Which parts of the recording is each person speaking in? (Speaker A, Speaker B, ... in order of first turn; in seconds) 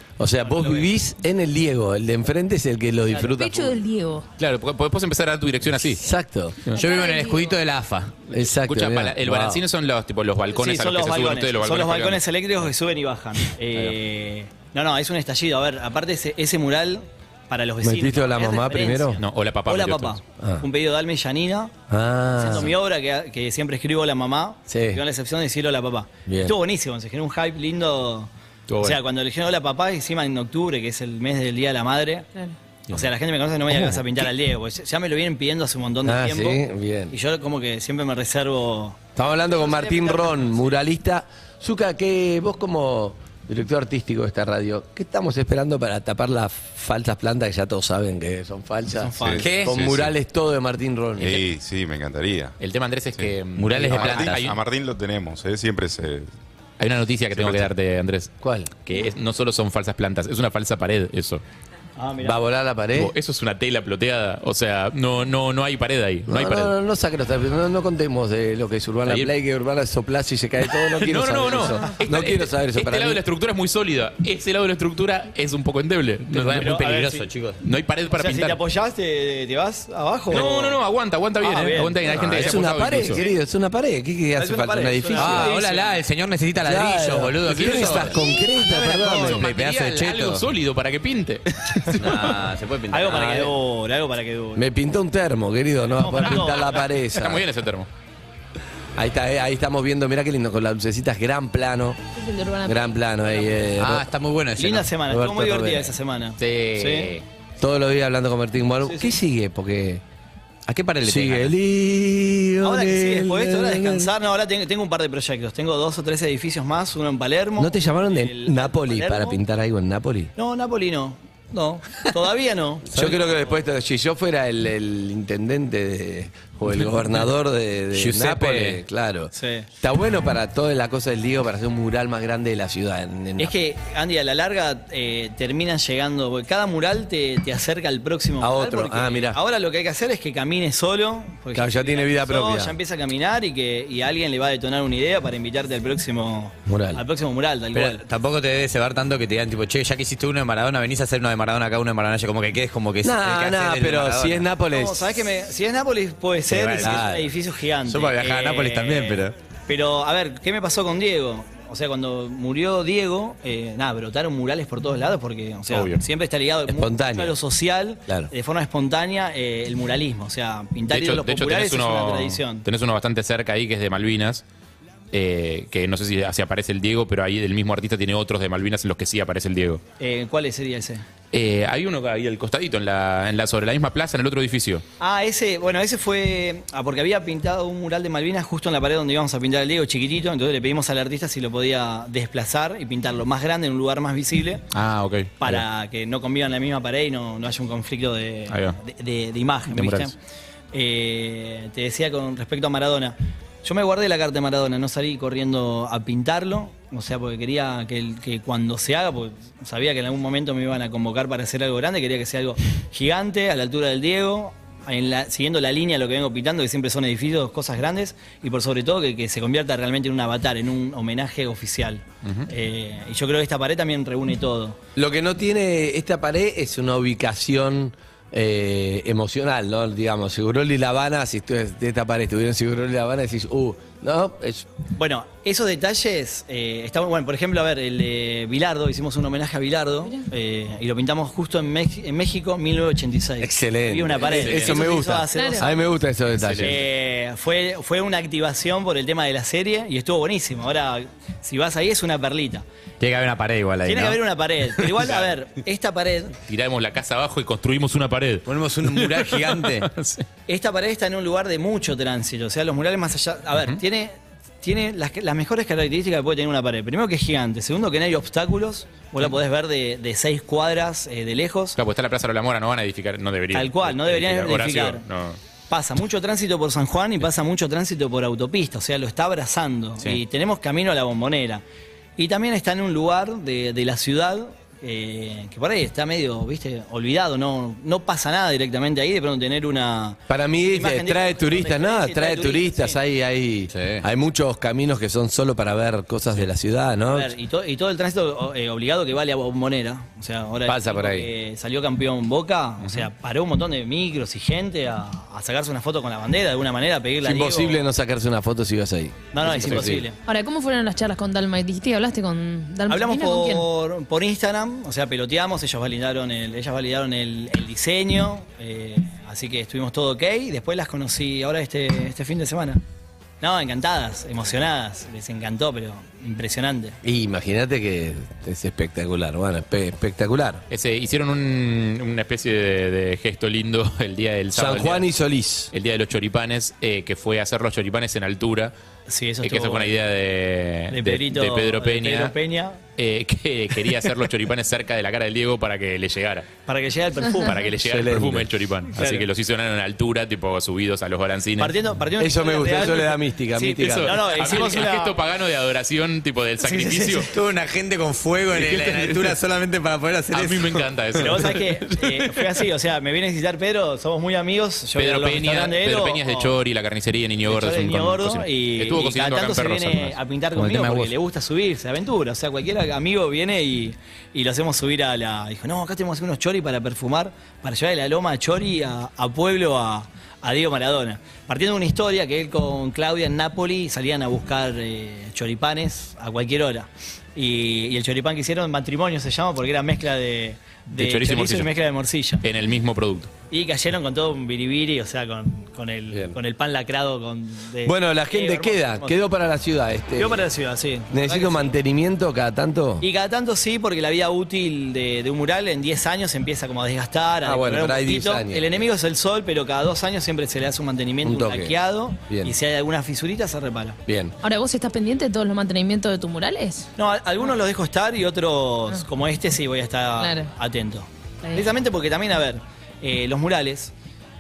Speaker A: 0.2-3.8, 5.8-6.7, 8.3-9.6, 17.8-19.2, 20.4-20.7, 21.9-22.7, 24.7-25.0, 26.3-26.6, 33.7-34.3, 36.0-37.1, 39.2-51.4, 58.4-58.7, 62.2-63.1, 66.3-73.2, 82.1-85.5, 86.6-89.5, 94.5-97.5, 99.0-102.0, 102.7-104.1, 105.1-105.9, 107.6-110.0, 111.0-114.1, 117.6-120.3, 122.9-133.5, 138.4-139.4, 141.5-142.8, 146.7-147.0, 153.0-155.2, 156.8-157.3, 166.7-167.3, 225.0-234.7, 243.4-246.8, 290.3-297.3, 300.6-301.3, 307.2-310.1, 327.0-330.6, 334.5-335.7, 347.8-348.5, 352.2-354.4, 397.8-400.4, 401.1-403.1, 407.4-408.9, 411.2-411.8, 412.3-412.5, 414.1-414.4
Speaker B: 0.4-0.9, 10.5-21.7, 22.3-28.3, 28.8-32.3, 32.9-40.8, 48.9-49.5, 62.0-62.4, 76.6-77.3, 78.2-80.8, 81.4-82.0, 82.5-83.4, 84.4-86.0, 92.9-94.6, 96.0-96.8, 104.6-107.1, 108.8-109.2, 112.6-119.4, 120.4-123.5, 129.3-129.7, 133.4-148.0, 154.7-172.7, 180.0-181.0, 185.0-194.6, 195.4-200.2, 200.7-224.8, 235.0-245.9, 246.6-252.7, 253.8-256.4, 260.5-271.8, 273.5-275.1, 275.7-281.6, 282.2-293.0, 297.1-307.8, 309.3-310.2, 312.9-322.8, 323.4-327.0, 339.1-339.9, 340.9-342.8, 346.7-347.6, 349.0-349.3, 351.6-355.2, 356.7-357.2, 361.2-366.6, 367.5-392.4, 393.5-399.1, 400.2-401.8, 403.0-414.0, 417.0-423.9
Speaker C: 3.2-4.3, 6.8-7.5, 102.2-102.9, 245.3-245.7, 310.2-313.7, 414.4-416.9, 420.2-420.5
Speaker D: 4.4-6.0, 8.3-12.2, 19.2-20.2, 28.7-29.0, 52.6-54.6, 56.8-58.3, 58.8-61.4, 63.0-66.7, 69.1-69.3, 70.7-76.8, 77.6-78.6, 80.3-83.2, 87.5-92.5, 97.1-97.9, 106.4-107.2, 165.7-166.0, 170.9-174.4, 175.1-179.8, 181.3-184.8, 194.7-195.6, 198.5-198.8, 199.7-200.1, 244.3-244.9, 246.3-246.8, 256.5-260.2, 271.8-275.4, 330.7-335.1, 335.7-338.7, 339.4-342.3, 343.0-346.5, 347.4-351.8, 353.8-357.3, 358.5-359.4, 360.3-362.4, 365.0-370.2, 390.9-391.8, 392.4-393.3
Speaker E: 6.8-8.2, 49.4-49.8, 53.6-54.4, 76.3-77.6, 85.2-90.4, 92.0-93.5, 103.8-104.9, 110.7-111.5, 127.9-128.8, 147.7-154.5, 156.5-157.1, 157.8-159.3, 253.0-254.2, 258.5-259.9, 293.7-294.0, 356.8-360.8, 370.6-371.1
Speaker F: 49.3-50.1, 51.2-52.5, 53.2-56.3, 57.4-57.7